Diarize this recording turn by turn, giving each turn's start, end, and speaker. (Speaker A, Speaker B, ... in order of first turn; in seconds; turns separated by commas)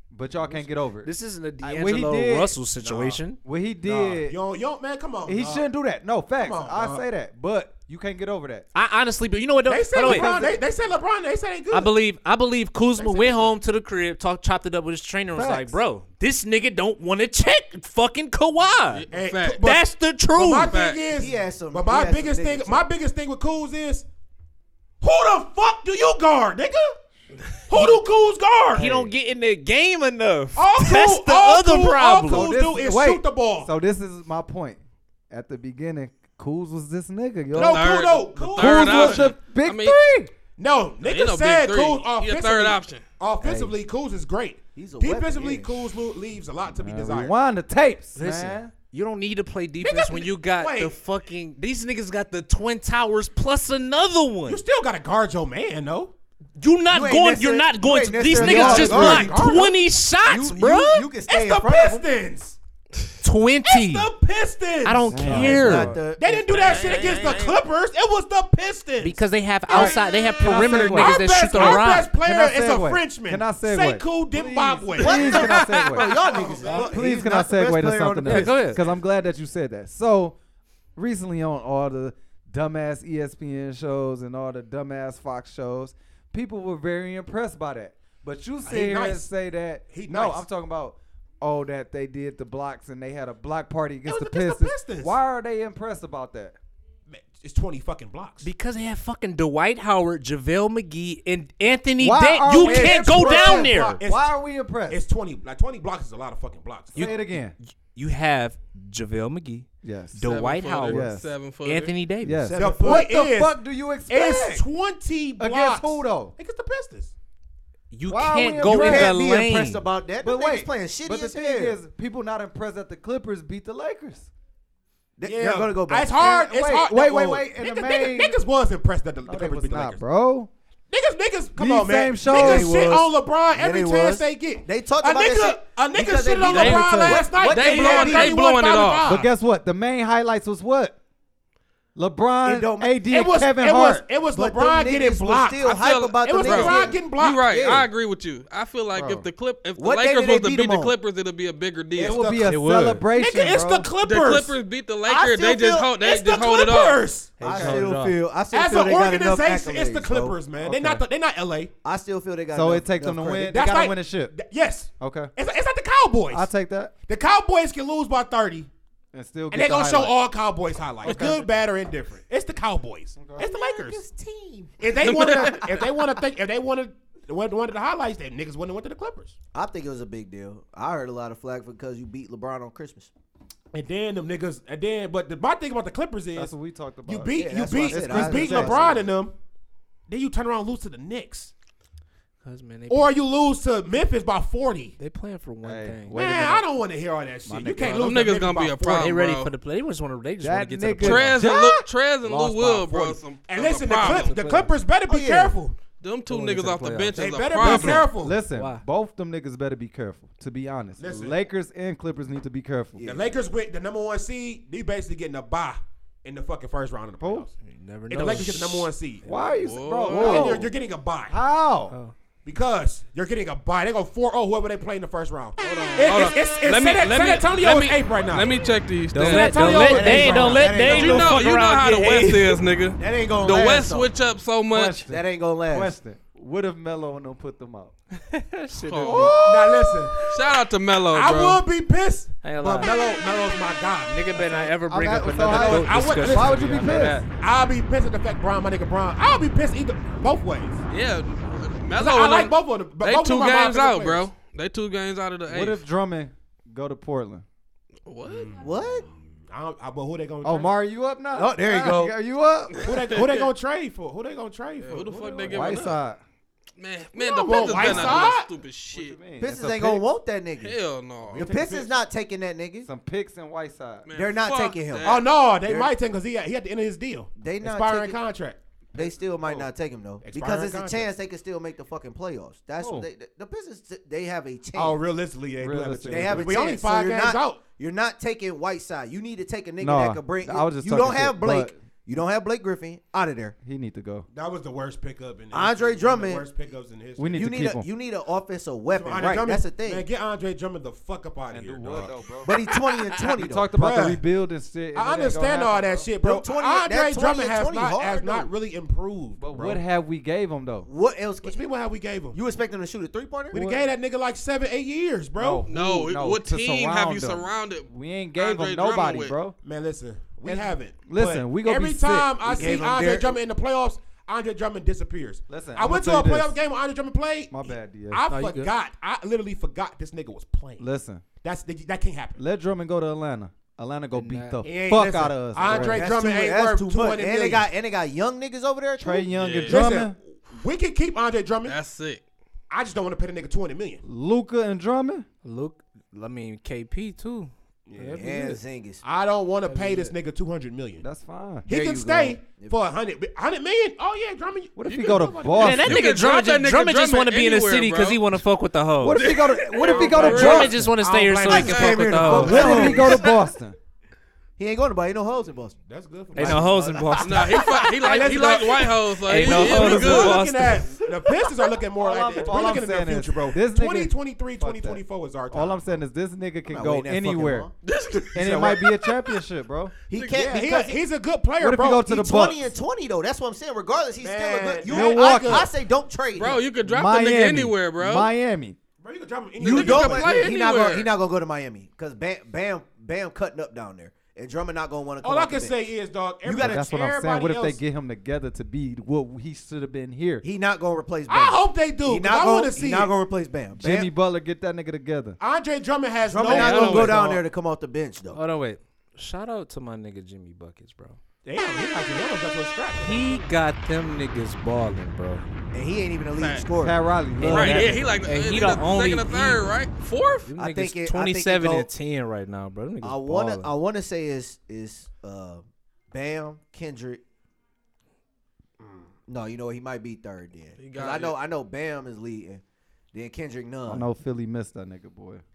Speaker A: 0.1-1.1, Speaker B: 1.0-3.4, Speaker A: 1.6-2.6, Speaker C: 2.8-3.2, Speaker A: 3.4-4.3, Speaker C: 3.9-5.7, Speaker A: 5.2-8.7, Speaker C: 6.4-7.0, Speaker B: 8.7-10.4, Speaker C: 9.7-11.9, Speaker A: 10.0-10.6, Speaker B: 11.7-19.0, Speaker C: 13.0-13.6, Speaker A: 15.3-15.8, Speaker D: 18.9-19.6, Speaker C: 19.1-24.1, Speaker B: 19.6-20.8, Speaker D: 20.7-21.0, Speaker E: 21.1-22.9, Speaker C: 25.0-27.0, Speaker C: 27.7-28.9, Speaker A: 28.7-29.1, Speaker B: 28.7-32.5, Speaker C: 30.6-33.7, Speaker A: 32.3-40.3, Speaker C: 37.5-39.3, Speaker D: 37.5-40.0, Speaker C: 40.6-47.3, Speaker D: 41.0-43.0, Speaker A: 43.4-43.7, Speaker E: 44.7-46.0, Speaker A: 46.8-48.7, Speaker B: 48.1-54.6, Speaker C: 49.8-51.0, Speaker C: 54.5-56.1, Speaker B: 56.6-61.1, Speaker E: 56.9-59.5, Speaker A: 58.3-59.3, Speaker C: 58.4-59.8, Speaker E: 60.2-62.0, Speaker C: 61.3-62.6, Speaker B: 63.2-64.1, Speaker C: 63.6-65.5, Speaker B: 64.8-65.9, Speaker A: 65.1-66.0, Speaker E: 65.3-67.4, Speaker C: 66.2-69.2, Speaker D: 66.8-67.1, Speaker B: 69.0-72.1, Speaker A: 69.7-76.1, Speaker C: 69.7-75.6, Speaker E: 75.0-78.8, Speaker D: 75.2-76.0, Speaker C: 76.1-77.1, Speaker A: 76.7-80.4, Speaker B: 78.2-78.8, Speaker A: 81.0-96.5, Speaker C: 88.6-89.3, Speaker C: 89.9-90.4, Speaker C: 94.0-95.1, Speaker C: 97.1-98.5, Speaker B: 98.4-104.0, Speaker A: 102.0-105.0, Speaker C: 102.5-104.3, Speaker C: 104.9-107.1, Speaker B: 106.9-111.0, Speaker A: 107.0-107.5, Speaker A: 109.8-110.2, Speaker D: 110.2-111.9, Speaker A: 110.8-111.3, Speaker B: 111.6-112.5, Speaker A: 112.2-114.6, Speaker C: 112.5-113.6, Speaker C: 114.1-117.1, Speaker A: 115.4-116.3, Speaker B: 117.9-119.8, Speaker A: 118.1-119.2, Speaker E: 118.6-121.8, Speaker A: 120.2-124.3, Speaker E: 125.2-126.3, Speaker C: 125.2-130.0, Speaker A: 126.2-128.4, Speaker A: 129.2-130.5, Speaker C: 130.9-139.3, Speaker A: 131.6-133.0, Speaker E: 132.2-138.4, Speaker D: 136.5-139.1, Speaker A: 136.5-137.3, Speaker A: 139.0-140.9, Speaker A: 141.9-144.1, Speaker E: 142.4-143.0, Speaker C: 143.0-147.8, Speaker E: 144.3-147.0, Speaker D: 145.8-152.3, Speaker E: 147.5-147.9, Speaker A: 148.9-149.3, Speaker E: 149.8-150.9, Speaker E: 152.0-152.5, Speaker A: 152.0-153.9, Speaker B: 152.4-153.0, Speaker C: 153.1-154.5, Speaker D: 154.0-157.0, Speaker E: 155.1-155.9, Speaker C: 155.9-157.4, Speaker B: 157.4-158.2, Speaker E: 157.4-160.4, Speaker A: 157.4-157.8, Speaker C: 158.5-161.7, Speaker A: 160.6-161.0, Speaker E: 161.8-163.6, Speaker A: 162.5-164.3, Speaker C: 163.5-166.5, Speaker A: 165.0-165.3, Speaker A: 166.3-166.9, Speaker C: 167.1-168.7, Speaker A: 169.1-170.1, Speaker C: 169.5-174.0, Speaker A: 171.0-171.4, Speaker A: 173.2-173.5, Speaker E: 173.4-175.5, Speaker C: 174.8-179.3, Speaker D: 175.0-175.8, Speaker E: 179.5-183.1, Speaker C: 183.7-186.5, Speaker A: 186.3-189.0, Speaker C: 187.1-189.3, Speaker E: 187.3-189.1, Speaker C: 190.1-191.5, Speaker B: 192.4-193.1, Speaker C: 192.9-194.9, Speaker B: 195.0-196.2, Speaker A: 195.6-196.7, Speaker C: 196.1-199.1, Speaker A: 197.5-198.2, Speaker D: 197.9-199.5, Speaker B: 198.9-201.4, Speaker A: 200.4-201.8, Speaker D: 201.0-204.3, Speaker C: 202.3-205.8, Speaker B: 203.9-204.7, Speaker E: 205.1-205.6, Speaker D: 206.0-208.1, Speaker B: 206.3-207.2, Speaker A: 206.3-213.1, Speaker C: 207.2-208.4, Speaker B: 208.5-208.8, Speaker C: 211.0-211.4, Speaker E: 213.0-213.3, Speaker C: 213.0-217.5, Speaker A: 217.2-217.5, Speaker B: 217.6-219.6, Speaker C: 218.1-219.3, Speaker A: 219.2-220.8, Speaker D: 219.6-220.6, Speaker C: 220.1-221.4, Speaker A: 221.3-221.9, Speaker C: 222.4-228.6, Speaker D: 225.6-235.0, Speaker B: 229.1-232.6, Speaker C: 229.2-230.9, Speaker E: 229.6-231.4, Speaker E: 233.0-234.1, Speaker A: 234.7-237.9, Speaker E: 235.1-235.9, Speaker B: 238.1-239.4, Speaker D: 238.8-239.4, Speaker A: 239.1-240.1, Speaker C: 239.4-240.3, Speaker D: 240.2-241.6, Speaker C: 241.1-244.3, Speaker B: 242.4-243.0, Speaker B: 244.0-247.3, Speaker A: 244.4-247.2, Speaker C: 245.4-250.8, Speaker D: 250.9-255.8, Speaker C: 251.9-254.3, Speaker A: 255.5-257.4, Speaker D: 258.1-258.9, Speaker C: 258.2-260.7, Speaker E: 258.6-259.1, Speaker A: 260.4-263.1, Speaker E: 261.3-262.1, Speaker D: 262.8-263.5, Speaker C: 262.8-265.7, Speaker D: 264.8-266.0, Speaker A: 265.5-266.2, Speaker D: 266.8-269.2, Speaker C: 267.2-268.5, Speaker A: 267.7-268.3, Speaker A: 268.9-270.0, Speaker E: 269.4-270.7, Speaker D: 270.6-271.5, Speaker C: 271.3-271.9, Speaker E: 271.3-272.9, Speaker A: 272.8-274.1, Speaker D: 274.1-275.2, Speaker E: 274.1-275.9, Speaker C: 275.0-279.7, Speaker E: 277.4-278.2, Speaker E: 278.9-285.0, Speaker C: 280.2-281.1, Speaker A: 282.8-283.1, Speaker C: 284.7-287.6, Speaker A: 285.6-286.5, Speaker E: 286.1-293.6, Speaker A: 289.8-291.8, Speaker A: 293.6-294.3, Speaker C: 294.3-297.5, Speaker E: 295.5-296.5, Speaker A: 297.2-297.9, Speaker E: 297.3-300.1, Speaker C: 298.9-302.2, Speaker A: 301.5-302.6, Speaker E: 302.4-303.7, Speaker A: 303.4-306.1, Speaker C: 303.7-304.2, Speaker C: 304.9-309.8, Speaker E: 306.2-308.5, Speaker A: 309.4-310.9, Speaker E: 310.9-311.6, Speaker C: 311.4-312.4, Speaker E: 312.3-313.6, Speaker C: 313.5-315.6, Speaker A: 313.5-313.9, Speaker A: 315.4-319.5, Speaker D: 315.7-319.4, Speaker C: 319.6-330.9, Speaker A: 320.4-322.8, Speaker E: 322.5-323.4, Speaker A: 325.5-326.6, Speaker A: 327.5-328.3, Speaker B: 328.3-328.7, Speaker A: 330.8-331.2, Speaker C: 331.4-332.4, Speaker A: 332.4-336.0, Speaker B: 334.1-334.6, Speaker C: 334.6-337.7, Speaker E: 335.6-339.3, Speaker A: 339.0-340.1, Speaker D: 339.3-339.9, Speaker C: 339.6-341.8, Speaker D: 341.6-342.2, Speaker C: 342.7-344.0, Speaker A: 344.0-345.2, Speaker B: 345.4-348.6, Speaker C: 347.9-348.2, Speaker E: 348.1-349.0, Speaker C: 349.0-351.0, Speaker B: 349.6-350.1, Speaker A: 351.0-351.7, Speaker C: 351.7-356.0, Speaker E: 351.7-352.8, Speaker A: 354.8-356.0, Speaker D: 354.9-358.4, Speaker B: 355.6-359.3, Speaker A: 359.0-360.9, Speaker D: 359.1-360.8, Speaker C: 359.8-363.3, Speaker B: 360.1-363.1, Speaker E: 361.4-363.3, Speaker A: 362.3-363.8, Speaker E: 364.6-365.8, Speaker C: 365.8-366.7, Speaker B: 366.3-367.6, Speaker E: 366.3-367.9, Speaker D: 367.2-370.5, Speaker C: 367.5-375.9, Speaker B: 369.2-370.9, Speaker A: 371.9-377.7, Speaker E: 376.7-377.7, Speaker D: 377.8-379.4, Speaker A: 378.3-379.9, Speaker C: 378.4-378.7, Speaker E: 380.1-381.0, Speaker D: 380.1-380.4, Speaker C: 380.3-382.1, Speaker A: 381.6-382.7, Speaker E: 382.0-386.6, Speaker C: 384.2-385.7, Speaker A: 384.9-385.7, Speaker D: 386.3-388.3, Speaker A: 386.8-388.8, Speaker C: 389.0-390.6, Speaker E: 389.6-395.9, Speaker D: 389.6-391.1, Speaker C: 395.2-397.8, Speaker E: 396.4-396.9, Speaker A: 396.6-400.4, Speaker E: 400.4-404.1, Speaker C: 401.3-403.1, Speaker A: 403.8-405.4, Speaker C: 405.4-407.4, Speaker E: 406.2-408.4, Speaker B: 406.4-407.4, Speaker B: 408.3-411.2, Speaker C: 411.4-413.4, Speaker B: 413.0-415.4, Speaker E: 415.7-417.0, Speaker D: 416.4-416.7, Speaker A: 416.8-418.1, Speaker B: 417.4-419.6, Speaker D: 417.4-420.5, Speaker B: 420.5-423.7, Speaker E: 420.6-421.9, Speaker E: 423.0-427.2, Speaker C: 428.8-429.1, Speaker E: 429.3-432.6, Speaker D: 430.8-431.4, Speaker E: 433.1-434.1, Speaker A: 433.9-435.4